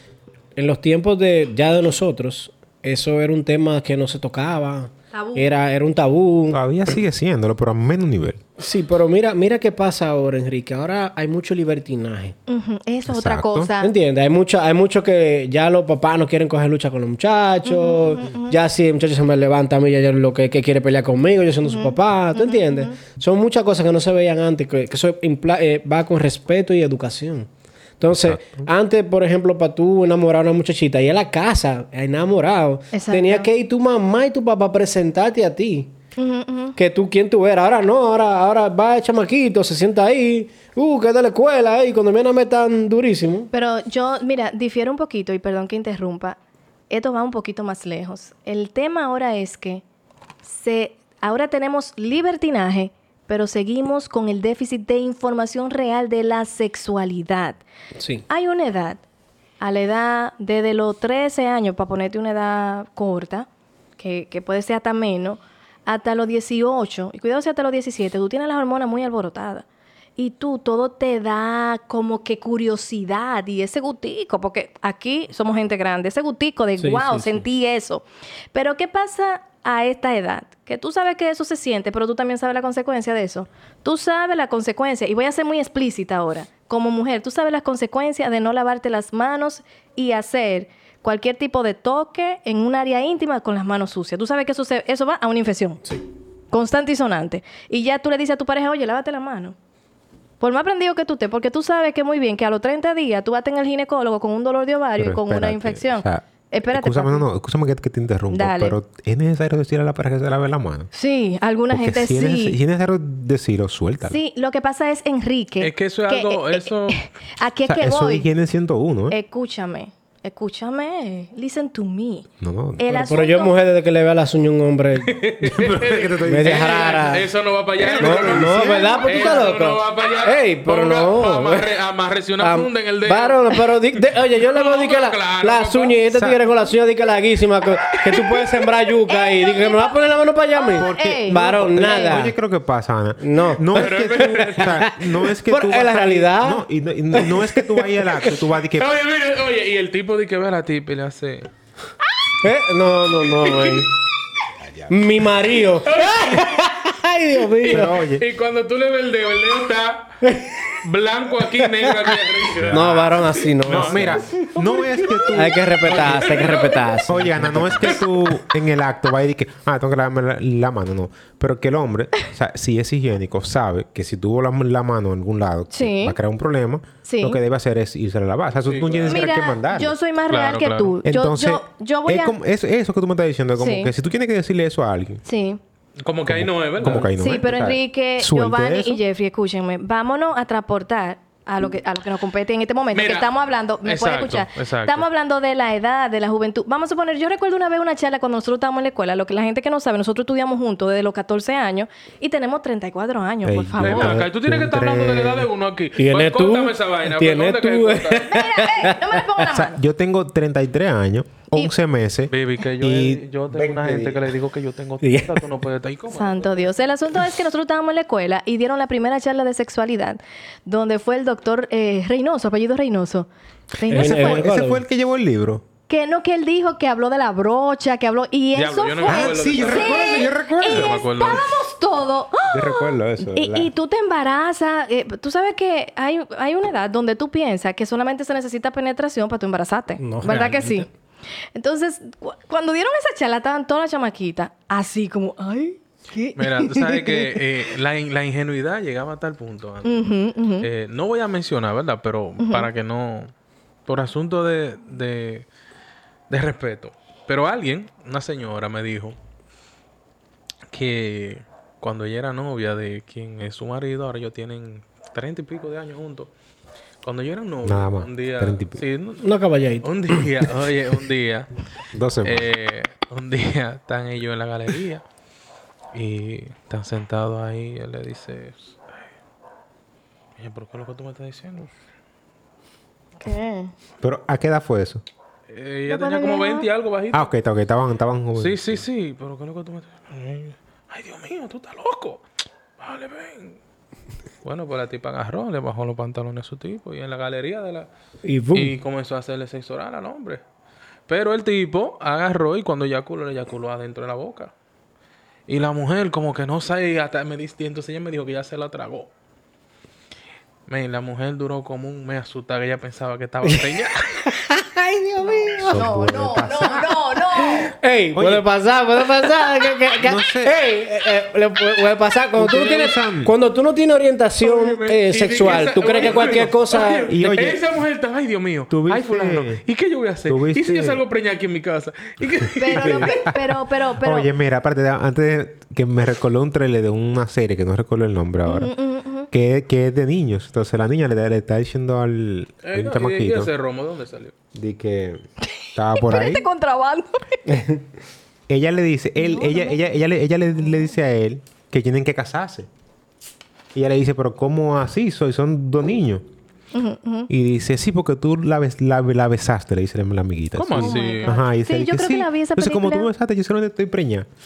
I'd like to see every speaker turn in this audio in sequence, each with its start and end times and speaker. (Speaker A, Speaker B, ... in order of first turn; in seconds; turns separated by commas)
Speaker A: 0.6-6.9, Speaker B: 5.1-5.5, Speaker C: 6.5-8.4, Speaker A: 8.6-12.4, Speaker B: 12.5-13.9, Speaker C: 13.1-13.7, Speaker A: 13.8-27.5, Speaker B: 17.6-18.6, Speaker B: 21.6-23.0, Speaker A: 28.0-35.9, Speaker C: 28.1-28.7, Speaker B: 32.9-33.5, Speaker B: 36.2-36.8, Speaker A: 36.8-43.5, Speaker B: 43.5-46.4, Speaker B: 46.9-49.8, Speaker B: 50.4-57.6, Speaker A: 58.0-58.2, Speaker B: 58.3-59.0, Speaker B: 59.6-63.5, Speaker B: 64.0-69.7, Speaker B: 70.2-95.8, Speaker A: 76.8-77.5, Speaker B: 96.5-99.6, Speaker B: 100.4-107.2, Speaker C: 105.0-110.9, Speaker B: 108.3-108.8, Speaker B: 110.9-112.6, Speaker C: 111.7-114.2, Speaker B: 114.0-118.3, Speaker D: 115.6-117.0, Speaker C: 117.7-119.2, Speaker B: 119.1-122.3, Speaker C: 122.4-123.1, Speaker B: 122.8-123.5, Speaker A: 122.9-125.7, Speaker D: 125.1-133.6, Speaker C: 125.5-127.2, Speaker A: 126.2-127.3, Speaker C: 127.8-129.0, Speaker A: 128.0-131.7, Speaker B: 128.6-129.5, Speaker A: 132.4-142.3, Speaker D: 134.4-136.3, Speaker B: 139.0-140.0, Speaker B: 140.5-142.2, Speaker C: 140.7-148.9, Speaker A: 143.2-146.6, Speaker D: 143.8-144.9, Speaker A: 147.1-148.4, Speaker D: 148.7-151.5, Speaker A: 152.4-153.9, Speaker D: 153.3-153.8, Speaker C: 154.6-155.0, Speaker A: 154.9-157.9, Speaker D: 155.8-156.7, Speaker D: 157.5-160.2, Speaker C: 157.7-158.3, Speaker A: 160.2-160.7, Speaker D: 160.8-164.4, Speaker A: 161.6-162.1, Speaker C: 162.6-166.5, Speaker A: 162.7-164.2, Speaker B: 164.6-165.3, Speaker A: 165.3-168.0, Speaker D: 165.8-167.1, Speaker C: 167.1-179.9, Speaker B: 175.7-176.2, Speaker B: 177.1-177.4, Speaker D: 178.7-179.3, Speaker B: 179.1-182.4, Speaker D: 180.3-181.0, Speaker C: 181.0-185.2, Speaker B: 183.6-183.9, Speaker B: 185.2-185.6, Speaker D: 186.0-187.1, Speaker C: 186.3-189.0, Speaker B: 187.2-204.2, Speaker D: 192.9-193.3, Speaker D: 193.8-195.1, Speaker C: 203.4-205.5, Speaker D: 203.8-208.3, Speaker A: 206.0-209.3, Speaker B: 208.3-209.8, Speaker C: 209.5-214.3, Speaker D: 212.3-216.8, Speaker A: 215.0-215.4, Speaker B: 216.1-224.5, Speaker C: 223.9-225.6, Speaker A: 223.9-224.8, Speaker B: 225.9-240.9, Speaker D: 228.6-231.5, Speaker C: 229.1-231.0, Speaker C: 232.5-233.7, Speaker A: 240.0-240.9, Speaker B: 241.6-247.4, Speaker D: 246.4-250.1, Speaker B: 249.8-250.7, Speaker D: 250.6-253.3, Speaker B: 252.4-252.7, Speaker D: 253.9-255.5, Speaker D: 256.3-259.2, Speaker D: 260.7-266.3, Speaker D: 267.0-269.3, Speaker C: 267.6-268.8, Speaker A: 269.2-270.5, Speaker D: 269.8-271.5, Speaker C: 271.9-272.5, Speaker D: 272.2-275.0, Speaker D: 275.9-279.1, Speaker D: 280.4-281.7, Speaker B: 283.2-283.7, Speaker C: 284.0-285.0, Speaker D: 285.5-287.3, Speaker B: 285.9-286.7, Speaker C: 287.1-288.9, Speaker D: 288.4-292.2, Speaker D: 292.8-293.6, Speaker D: 294.4-297.9, Speaker A: 298.2-298.8, Speaker D: 298.5-300.4, Speaker D: 301.1-304.5, Speaker D: 305.5-309.1, Speaker D: 310.7-314.1, Speaker A: 313.4-315.9, Speaker B: 315.3-317.8, Speaker C: 315.6-317.0, Speaker A: 317.4-327.1, Speaker C: 318.1-318.5, Speaker C: 320.0-320.6, Speaker C: 322.4-323.3, Speaker D: 324.4-333.1, Speaker C: 325.9-326.5, Speaker C: 327.1-327.6, Speaker C: 328.7-329.6, Speaker C: 330.3-331.0, Speaker B: 332.6-334.3, Speaker C: 332.8-338.7, Speaker B: 338.5-339.3, Speaker C: 339.3-343.5, Speaker D: 342.6-344.3, Speaker C: 344.5-345.2, Speaker C: 345.8-346.4, Speaker B: 345.9-347.4, Speaker A: 347.5-347.8, Speaker C: 348.5-352.7, Speaker B: 349.2-349.8, Speaker C: 353.7-356.2, Speaker B: 356.7-357.3, Speaker C: 357.3-364.3, Speaker D: 360.6-361.3, Speaker B: 360.8-363.1